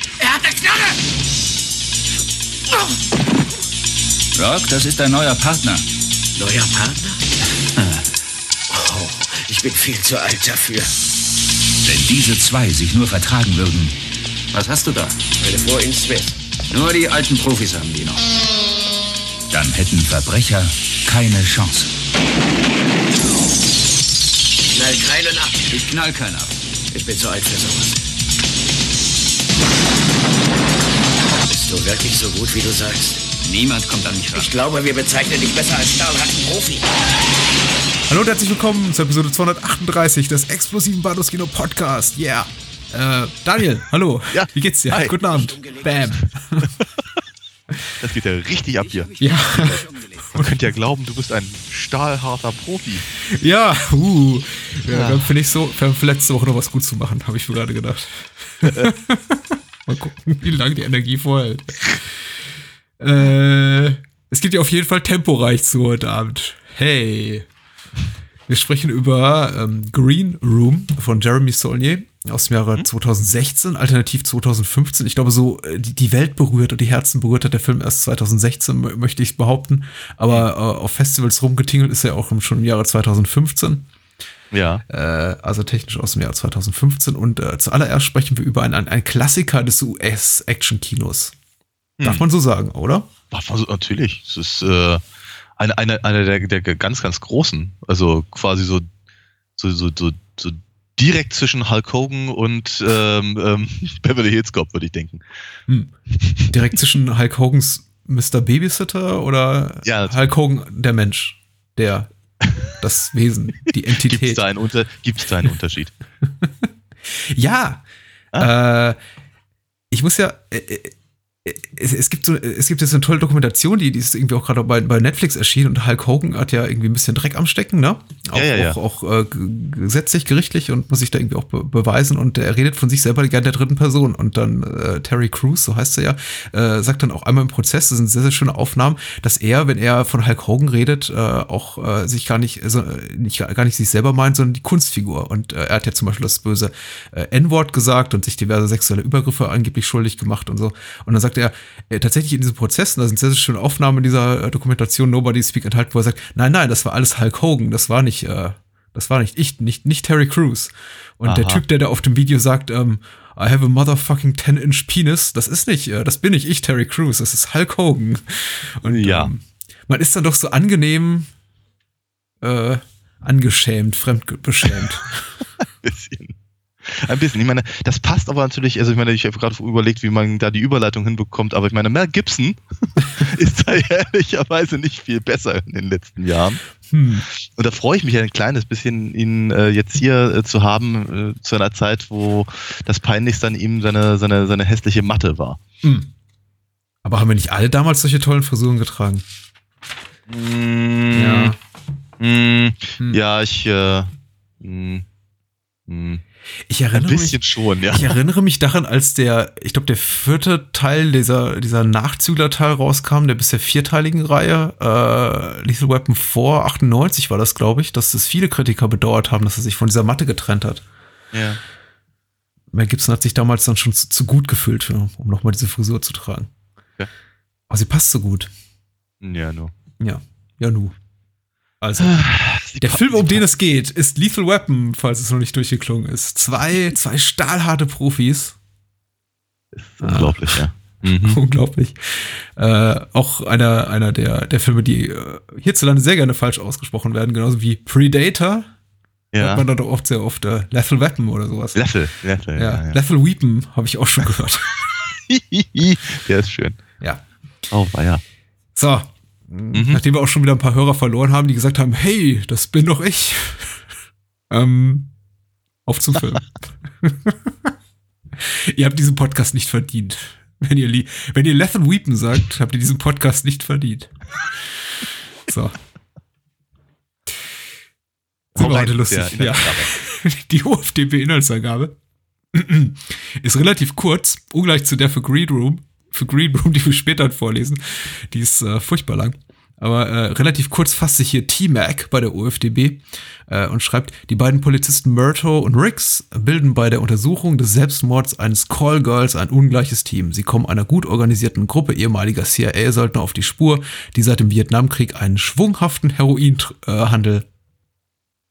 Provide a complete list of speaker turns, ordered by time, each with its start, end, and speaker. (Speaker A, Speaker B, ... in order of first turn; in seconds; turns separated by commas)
Speaker A: 0.2-1.0, Speaker B: 4.3-5.8, Speaker A: 6.4-7.2, Speaker B: 8.7-9.2, Speaker A: 8.8-10.8, Speaker B: 11.8-13.9, Speaker B: 14.5-15.3, Speaker A: 15.4-16.3, Speaker B: 16.7-18.2, Speaker B: 19.5-21.9, Speaker A: 24.7-25.6, Speaker B: 25.5-27.9, Speaker A: 27.2-27.5, Speaker B: 31.4-34.5, Speaker A: 31.7-33.1, Speaker A: 34.3-36.9, Speaker C: 38.1-46.7, Speaker D: 44.3-45.2, Speaker D: 48.0-49.8, Speaker C: 49.2-50.7, Speaker A: 49.2-50.1, Speaker D: 50.3-53.0, Speaker C: 53.2-62.4, Speaker D: 54.9-55.3, Speaker D: 58.6-58.9, Speaker C: 63.0-67.5, Speaker C: 68.5-83.8, Speaker D: 84.5-84.8, Speaker C: 84.9-91.3, Speaker C: 92.0-93.1, Speaker D: 93.3-95.0, Speaker D: 95.6-98.9, Speaker D: 99.6-105.2, Speaker C: 105.7-105.9, Speaker D: 106.1-106.5, Speaker C: 106.5-112.1, Speaker D: 109.8-110.2, Speaker C: 112.6-114.4, Speaker D: 114.0-116.0, Speaker C: 116.2-117.8, Speaker C: 118.4-119.0, Speaker C: 119.9-171.3, Speaker D: 128.3-128.8, Speaker D: 161.2-161.6, Speaker D: 168.9-169.3, Speaker C: 172.4-175.3, Speaker D: 175.6-186.6, Speaker C: 186.9-187.3, Speaker D: 187.3-195.6, Speaker C: 195.8-196.1, Speaker C: 197.0-199.2, Speaker D: 200.3-201.5, Speaker C: 201.1-201.6, Speaker D: 202.2-204.1, Speaker D: 204.6-205.0, Speaker D: 205.9-206.2, Speaker C: 206.7-207.4, Speaker D: 206.9-208.2, Speaker C: 207.9-220.8, Speaker D: 221.3-221.6, Speaker C: 222.7-226.5, Speaker C: 227.7-228.5, Speaker D: 229.2-229.7, Speaker C: 230.0-230.9, Speaker C: 231.8-232.2, Speaker D: 232.0-233.4, Speaker C: 232.8-238.6, Speaker D: 239.8-241.4, Speaker C: 240.0-240.6, Speaker C: 241.2-248.7, Speaker D: 249.3-249.7, Speaker C: 249.4-251.8, Speaker D: 251.7-253.0, Speaker C: 252.6-254.7, Speaker D: 255.3-256.8, Speaker D: 257.7-258.2, Speaker C: 258.8-263.8, Speaker D: 259.7-260.0, Speaker C: 264.5-265.1, Speaker C: 265.9-267.7, Speaker C: 268.4-274.6, Speaker C: 275.5-275.8, Speaker D: 278.5-279.9, Speaker C: 278.5-281.9, Speaker C: 282.5-307.4